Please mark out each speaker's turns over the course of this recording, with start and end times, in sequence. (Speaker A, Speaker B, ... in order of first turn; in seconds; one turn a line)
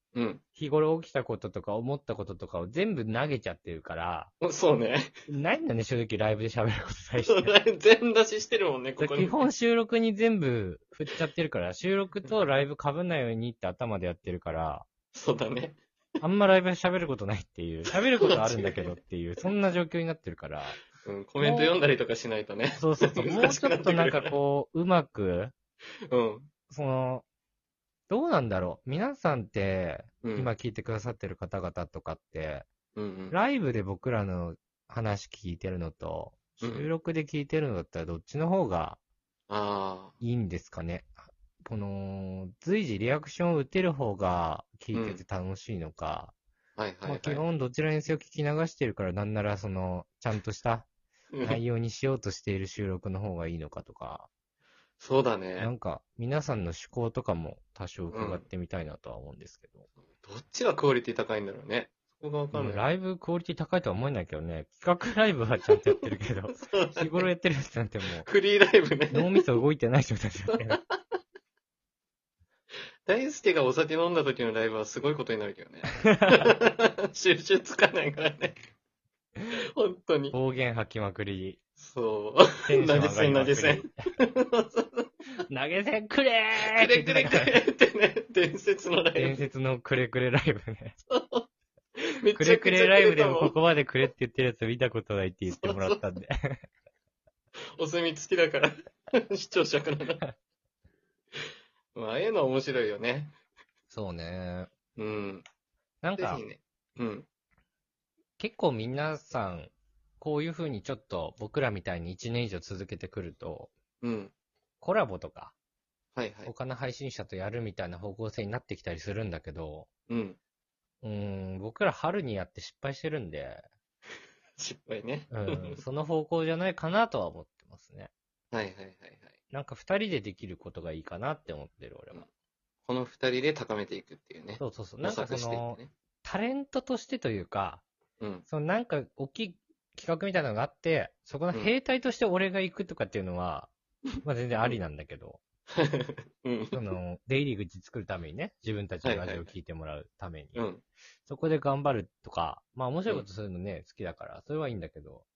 Speaker A: 0.1-0.4
Speaker B: 0.6-4.3
Speaker A: 4.4-5.1
Speaker B: 5.3-7.6
Speaker A: 7.2-9.4
Speaker B: 9.0-14.9
Speaker A: 15.1-15.8
Speaker B: 16.2-20.8
Speaker A: 17.9-18.9
Speaker A: 21.0-24.4
Speaker B: 21.4-21.8
Speaker B: 22.8-25.5
Speaker A: 26.1-26.5
Speaker B: 26.7-27.2
Speaker B: 28.1-32.7
Speaker A: 30.2-30.5
Speaker A: 32.9-33.4
Speaker B: 33.3-39.0
Speaker A: 36.6-36.9
Speaker A: 39.5-40.1
Speaker B: 40.2-41.1
Speaker B: 41.6-46.3
Speaker A: 44.9-45.2
Speaker A: 46.8-47.4
Speaker B: 47.0-50.9
Speaker A: 51.3-51.6
Speaker B: 51.4-54.3
Speaker A: 55.0-55.7
Speaker B: 55.6-59.9
Speaker A: 58.1-58.5
Speaker A: 60.1-62.8
Speaker B: 62.5-68.3
Speaker A: 66.5-67.3
Speaker A: 68.1-69.4
Speaker B: 69.1-70.8
Speaker A: 73.1-78.6
Speaker A: 79.8-80.4
Speaker B: 80.3-81.6
Speaker A: 81.8-85.1
Speaker B: 82.6-83.9
Speaker B: 85.5-87.6
Speaker A: 86.6-89.4
Speaker B: 89.1-91.0
Speaker A: 91.0-91.5
Speaker A: 92.2-93.5
Speaker B: 92.3-96.6
Speaker A: 95.5-96.0
Speaker A: 97.8-100.2
Speaker A: 101.9-103.3
Speaker B: 103.9-104.7
Speaker A: 105.0-105.4
Speaker B: 106.0-106.4
Speaker A: 106.2-107.3
Speaker B: 108.4-113.7
Speaker A: 114.0-114.3
Speaker B: 114.8-115.5
Speaker A: 116.1-116.5
Speaker B: 116.4-119.9
Speaker A: 120.1-120.4
Speaker B: 121.0-123.6
Speaker A: 124.6-125.8
Speaker B: 125.3-128.1
Speaker A: 128.5-129.3
Speaker B: 129.5-132.2
Speaker A: 132.9-135.9
Speaker B: 134.6-137.8
Speaker A: 138.2-138.4
Speaker B: 138.5-143.7
Speaker B: 144.2-145.4
Speaker A: 145.7-146.8
Speaker B: 146.7-150.6
Speaker A: 149.0-149.5
Speaker A: 150.6-150.8
Speaker B: 151.2-155.2